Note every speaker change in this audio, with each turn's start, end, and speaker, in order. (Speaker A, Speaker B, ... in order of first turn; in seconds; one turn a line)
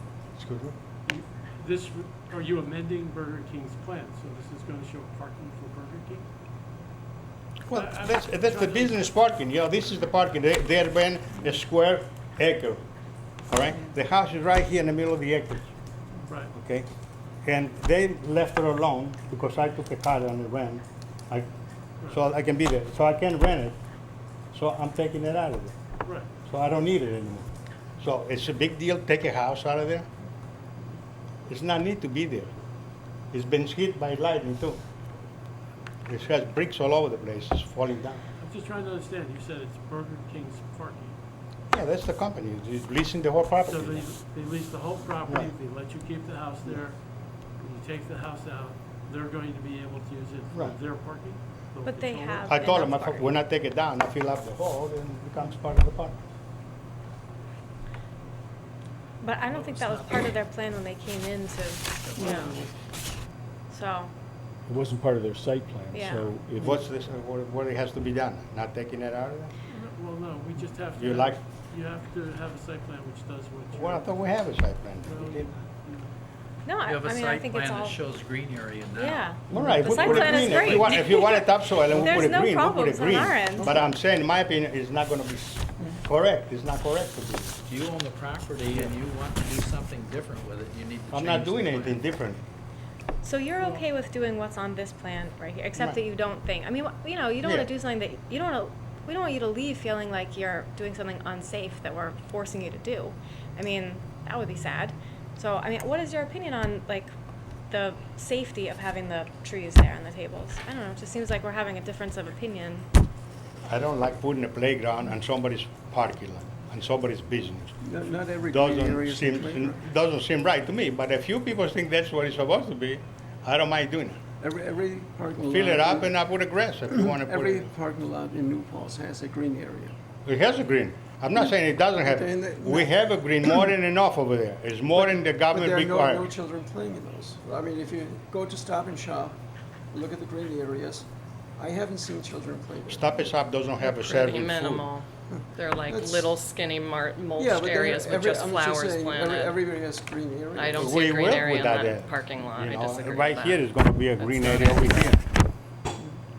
Speaker A: 0.4-0.8
Speaker B: 1.1-6.3
Speaker A: 7.7-12.8
Speaker B: 7.7-9.0
Speaker A: 13.5-15.7
Speaker B: 16.2-16.5
Speaker A: 16.5-16.9
Speaker A: 17.4-21.5
Speaker A: 22.1-23.8
Speaker A: 24.5-25.7
Speaker B: 26.0-26.3
Speaker A: 26.4-30.1
Speaker A: 31.5-32.5
Speaker A: 33.3-34.8
Speaker A: 36.1-38.2
Speaker B: 38.4-41.2
Speaker A: 41.7-44.1
Speaker B: 43.7-47.0
Speaker B: 47.6-52.5
Speaker A: 50.5-50.8
Speaker C: 51.8-53.3
Speaker A: 52.5-56.2
Speaker C: 59.2-62.5
Speaker B: 59.5-60.3
Speaker D: 62.2-62.7
Speaker C: 63.7-64.1
Speaker E: 64.7-66.8
Speaker C: 65.9-66.4
Speaker A: 66.6-69.5
Speaker B: 69.7-74.4
Speaker A: 71.0-71.4
Speaker A: 73.7-75.6
Speaker B: 75.0-76.1
Speaker C: 76.7-78.0
Speaker F: 76.9-79.3
Speaker C: 78.9-83.7
Speaker A: 79.5-87.5
Speaker F: 80.0-81.0
Speaker F: 87.7-92.0
Speaker A: 91.1-92.4
Speaker C: 93.2-107.1
Speaker A: 95.8-96.0
Speaker A: 97.4-97.7
Speaker C: 107.7-112.9
Speaker A: 113.7-117.7
Speaker D: 117.8-119.9
Speaker A: 118.5-124.2
Speaker D: 124.4-126.2
Speaker A: 125.4-127.7
Speaker D: 126.9-129.9
Speaker A: 130.3-136.3
Speaker D: 131.3-133.0
Speaker D: 134.9-139.4
Speaker D: 139.9-143.3
Speaker A: 142.9-144.9
Speaker G: 143.8-149.6
Speaker D: 145.9-146.3
Speaker D: 147.3-151.0
Speaker G: 150.6-155.2
Speaker A: 150.7-155.3